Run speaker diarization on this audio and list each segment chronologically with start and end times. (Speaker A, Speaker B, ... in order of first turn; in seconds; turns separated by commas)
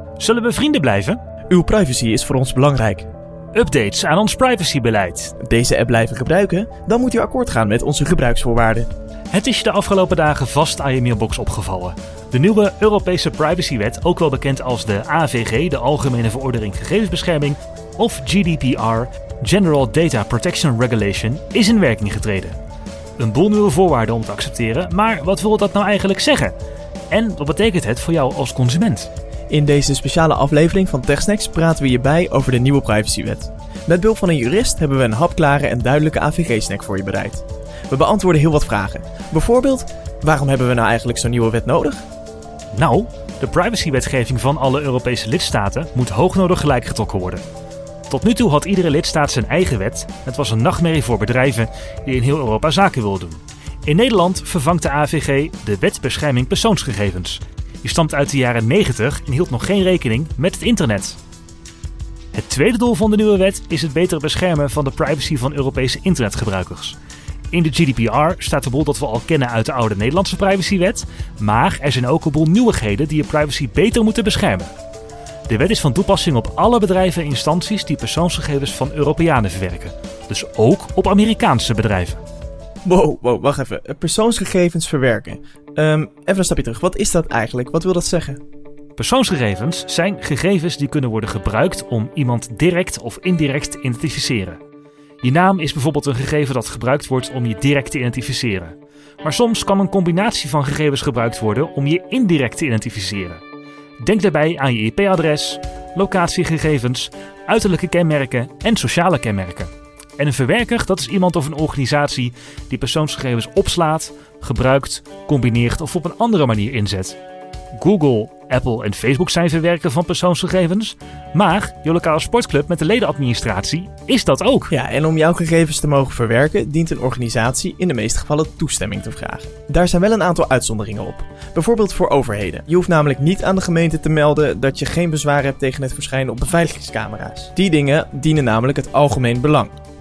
Speaker A: 0.2-1.2, Speaker B: 1.5-3.1, Speaker A: 3.5-5.3, Speaker B: 5.4-8.9, Speaker A: 9.3-22.6, Speaker A: 23.2-26.5, Speaker A: 27.1-29.1, Speaker B: 29.5-42.0, Speaker A: 42.7-47.4, Speaker A: 48.1-61.2, Speaker A: 62.3-67.0, Speaker A: 67.5-74.7, Speaker A: 75.5-82.2, Speaker B: 82.9-88.4, Speaker A: 89.0-94.6, Speaker A: 95.2-103.4, Speaker A: 104.0-117.2, Speaker A: 117.7-124.7, Speaker B: 124.7-139.7